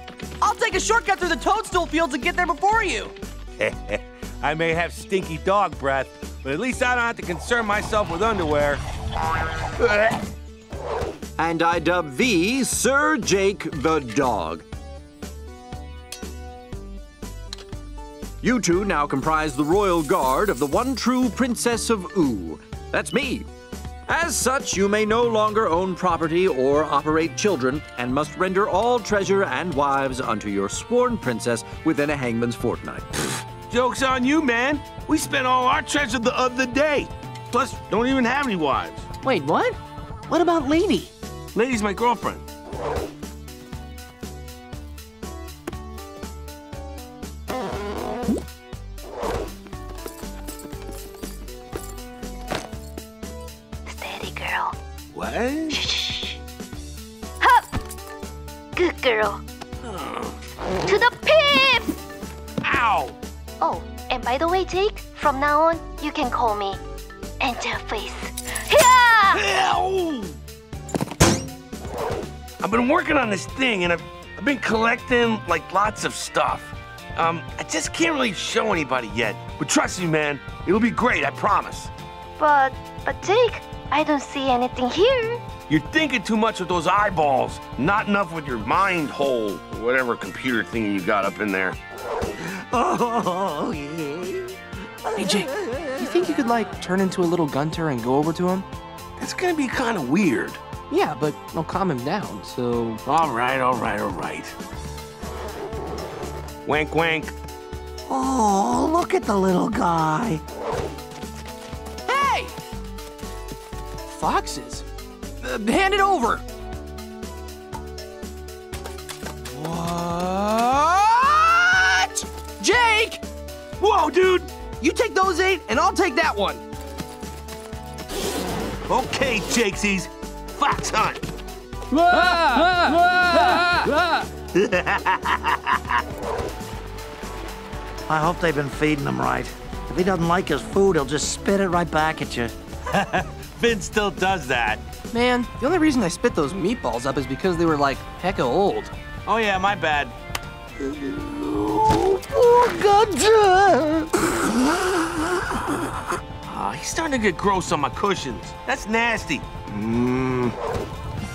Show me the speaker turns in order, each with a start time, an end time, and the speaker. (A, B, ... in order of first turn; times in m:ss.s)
0:00.4-0:03.1 A
0:03.6-0:08.8 B
0:11.6-0:13.0 C
0:14.0-0:14.6 C
0:18.6-0:21.1 C
0:21.6-0:22.4 C
0:24.4-0:26.6 C
0:28.1-0:28.7 C
0:30.0-0:30.8 C
0:31.9-0:33.0 C
0:33.5-0:39.0 B
0:39.2-0:39.8 A
0:40.3-0:41.1 A
0:41.5-0:42.4 B
0:53.9-0:54.7 D
0:55.1-0:55.8 B
0:55.7-0:56.4 D
0:57.4-0:57.7 D
0:58.8-0:59.4 D
0:59.8-1:00.3 B
1:00.8-1:02.0 D
1:02.6-1:03.2 B
1:03.6-1:06.8 D
1:07.4-1:09.4 D
1:09.3-1:10.4 B
1:12.6-1:21.9 B
1:22.4-1:25.4 D
1:25.7-1:31.8 B
1:32.7-1:33.8 B
1:33.1-1:34.3 E
1:35.1-1:38.7 A
1:39.2-1:40.6 B
1:40.9-1:43.0 A
1:43.0-1:44.5 B
1:46.6-1:47.3 B
1:48.1-1:50.4 E
1:52.1-1:52.5 A
1:54.1-1:54.8 A
1:55.4-1:56.4 A
1:59.5-2:03.2 A
2:03.8-2:04.5 B
2:04.8-2:06.6 A
2:08.9-2:11.2 B
2:14.5-2:16.0 B
2:18.1-2:22.5 E
2:22.9-2:24.8 B
2:25.1-2:28.9 A
2:29.2-2:30.1 B
2:30.8-2:34.0 B
2:36.4-2:40.5 B